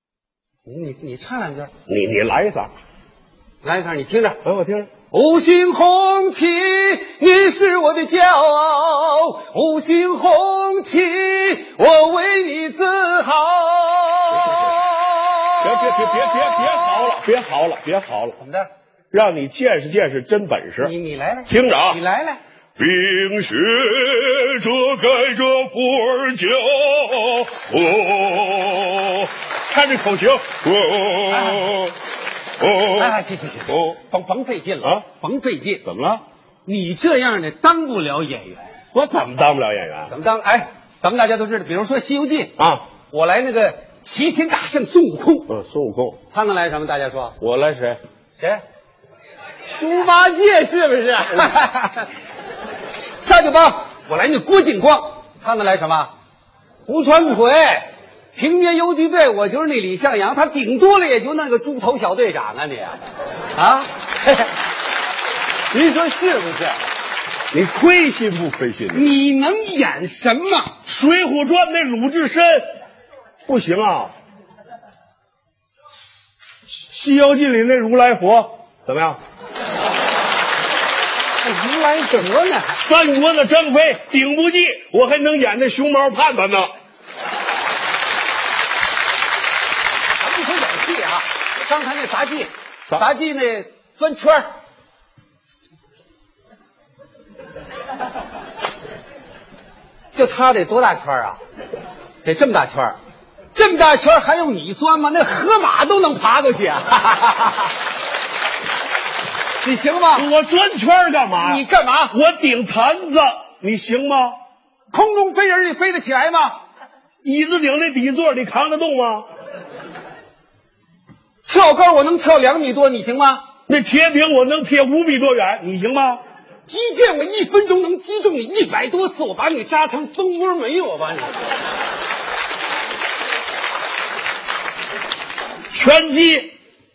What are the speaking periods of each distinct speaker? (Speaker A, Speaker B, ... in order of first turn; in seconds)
Speaker A: 0.7-1.7, 3.6-4.4, 5.1-16.4, 18.4-18.7, 20.8-22.4, 31.3-31.6, 32.9-35.8, 36.6-38.8, 40.1-42.5, 43.1-45.5, 46.3-47.4, 48.4-48.6, 49.8-52.1, 52.9-56.1, 56.9-63.0, 63.5-64.5, 65.7-66.8, 68.9-70.8, 81.4-82.8, 90.2-94.5, 100.1-101.4, 102.2-103.0, 103.5-107.7, 109.6-110.2, 111.4-112.2, 114.9-116.6, 121.4-123.5, 126.7-131.4
Speaker B: 1.9-2.7, 4.4-4.9, 15.6-18.4, 19.1-20.9, 21.5-22.0, 22.8-31.9, 32.6-33.1, 35.9-36.2, 38.9-40.1, 42.6-42.9, 45.5-46.2, 47.4-48.0, 67.5-69.1, 70.8-72.7, 73.5-74.1, 76.9-79.2, 82.8-86.7, 110.1-114.4, 117.2-119.3, 123.7-126.2, 135.7-136.5